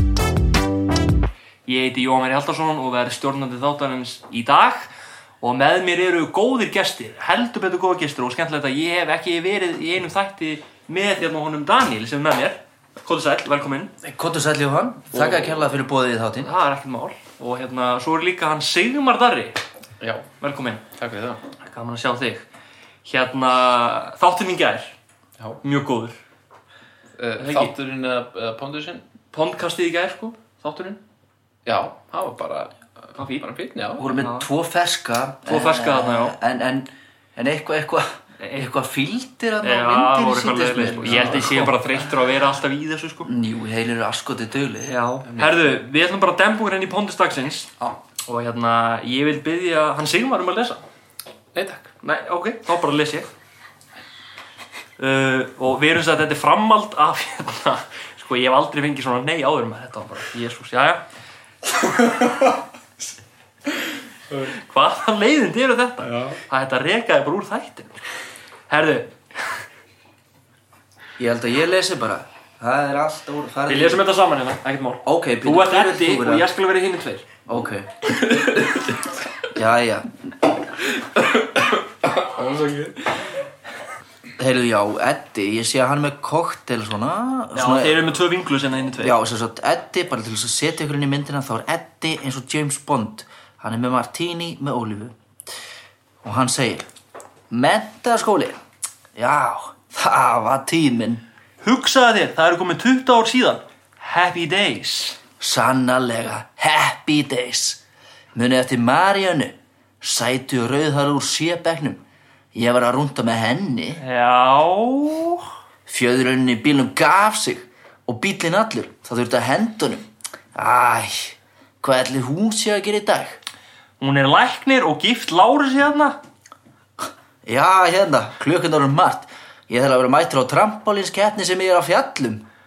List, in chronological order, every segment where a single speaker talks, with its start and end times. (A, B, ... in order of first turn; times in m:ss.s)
0:01.6-0:04.9 A
0:05.4-0:13.9 A
0:14.0-0:16.5 B
0:15.1-0:15.6 C
0:16.4-0:19.6 A
0:20.0-0:20.2 C
0:20.4-0:20.8 A
0:21.0-0:21.4 C
0:21.6-0:22.4 A
0:23.0-0:24.9 A
0:25.6-0:26.2 A
0:27.2-0:29.0 C
0:27.4-0:27.7 A
0:29.3-0:31.0 A
0:31.6-0:34.1 C
0:33.2-0:33.5 A
0:34.0-0:41.7 B
0:34.2-0:34.5 A
0:35.4-0:36.4 A
0:38.4-0:38.7 A
0:39.6-0:43.3 A
0:41.0-0:41.8 C
0:43.2-0:45.0 B
0:44.9-0:47.7 A
0:45.2-0:45.7 C
0:48.2-0:50.8 A
0:51.5-0:51.9 C
0:52.0-0:53.3 A
0:55.0-1:01.0 A
1:04.3-1:08.0 A
1:08.7-1:09.6 A
1:11.2-1:14.0 B
1:13.7-1:17.2 A
1:15.0-1:16.5 B
1:17.5-1:18.0 B
1:18.3-1:19.0 C
1:19.5-1:20.3 B
1:21.0-1:23.3 C
1:24.4-1:28.1 B
1:27.5-1:29.2 A
1:29.0-1:35.1 B
1:36.2-1:36.9 B
1:37.5-1:38.6 B
1:39.2-1:41.2 B
1:41.6-1:45.2 A
1:45.4-1:47.8 B
1:48.3-1:52.0 B
1:52.5-1:54.0 B
1:54.0-1:55.4 A
1:55.9-2:03.4 B
2:04.0-2:06.2 A
2:07.0-2:12.4 B